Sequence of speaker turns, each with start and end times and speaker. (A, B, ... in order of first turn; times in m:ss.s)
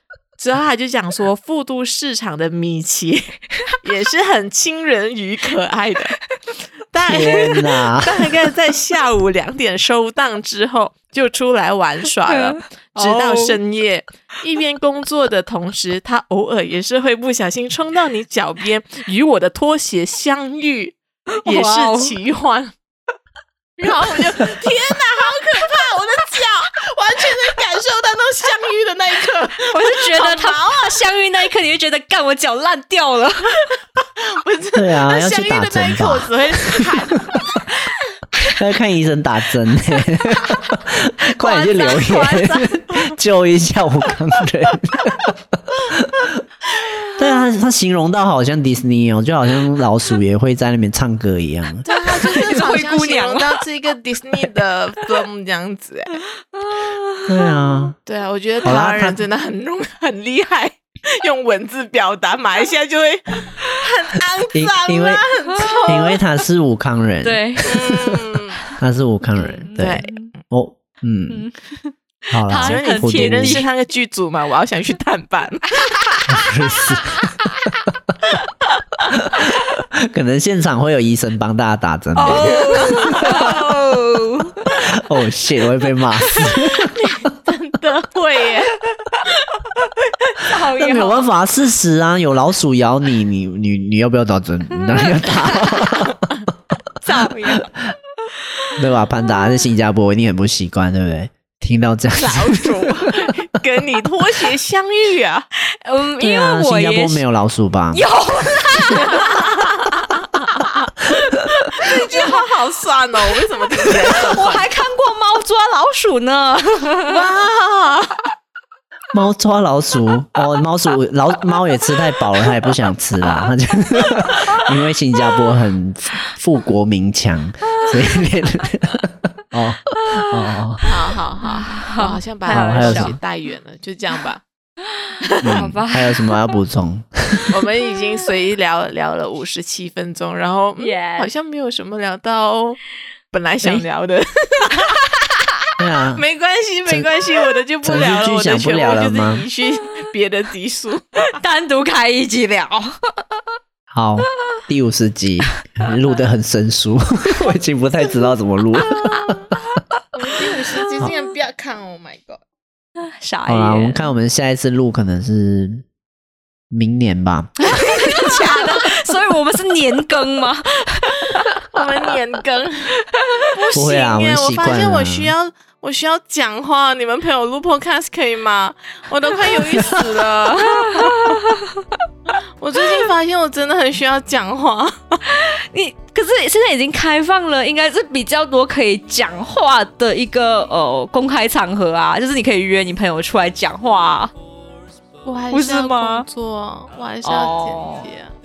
0:00.4-0:06.2 A
0:06.9-0:22.7 A
0:07.1-0:08.2 B
0:12.3-0:13.6 C
0:21.3-0:22.1 C
0:23.8-0:30.9 A
0:29.6-0:33.7 C
0:34.2-0:37.6 A
0:34.8-0:36.8 B
0:38.6-0:46.4 B
0:41.3-0:42.9 C
0:47.2-0:51.9 B
0:51.8-0:56.2 A
0:51.9-0:53.7 C
0:56.6-0:57.6 C
0:57.3-0:58.0 B
0:58.0-1:06.2 A
0:58.6-0:59.2 B
1:04.5-1:05.2 B
1:05.5-1:06.1 C
1:05.9-1:08.2 B
1:07.2-1:07.9 C
1:07.7-1:08.6 A
1:08.8-1:11.5 B
1:09.4-1:10.3 C
1:09.8-1:10.1 A
1:11.3-1:13.7 C
1:12.3-1:13.6 B
1:12.5-1:15.8 A
1:15.8-1:17.8 C
1:16.3-1:17.4 B
1:19.4-1:23.6 B
1:22.2-1:24.7 C
1:22.2-1:23.5 A
1:24.7-1:27.1 B
1:26.4-1:28.8 A
1:30.4-1:31.3 C
1:30.8-1:36.3 B
1:34.8-1:36.1 C
1:37.0-1:37.7 C
1:38.8-1:43.3 B
1:42.1-1:45.5 A
1:45.8-1:47.2 C
1:46.2-1:48.0 B
1:47.9-1:49.5 C
1:49.0-1:50.6 A
1:51.7-1:54.7 A
1:51.8-1:52.3 C
1:54.1-1:57.2 C
1:57.1-1:58.3 A
1:59.1-2:10.8 B
2:10.1-2:10.9 C
2:10.8-2:14.4 A
2:11.4-2:13.2 C
2:12.5-2:13.2 B
2:15.3-2:16.4 C
2:15.4-2:17.5 B
2:17.5-2:22.8 A
2:20.8-2:21.3 C
2:23.3-2:24.9 A
2:25.1-2:25.7 C
2:25.8-2:26.2 B
2:26.2-2:31.1 A
2:27.8-2:29.4 B
2:31.3-2:33.2 C
2:33.9-2:39.5 B
2:38.8-2:40.0 C
2:40.2-2:42.4 A
2:40.8-2:41.3 C
2:43.0-2:44.1 C
2:43.5-2:45.8 B
2:46.7-2:47.8 B
2:47.6-2:51.6 C
2:48.3-2:48.6 A
2:51.7-2:53.0 A
2:53.1-2:53.5 C
2:53.6-3:01.4 A
2:53.7-2:55.3 B
3:00.6-3:01.9 C
3:02.6-3:05.2 A
3:05.3-3:14.3 C
3:15.2-3:18.4 A
3:15.5-3:16.3 C
3:17.2-3:18.1 C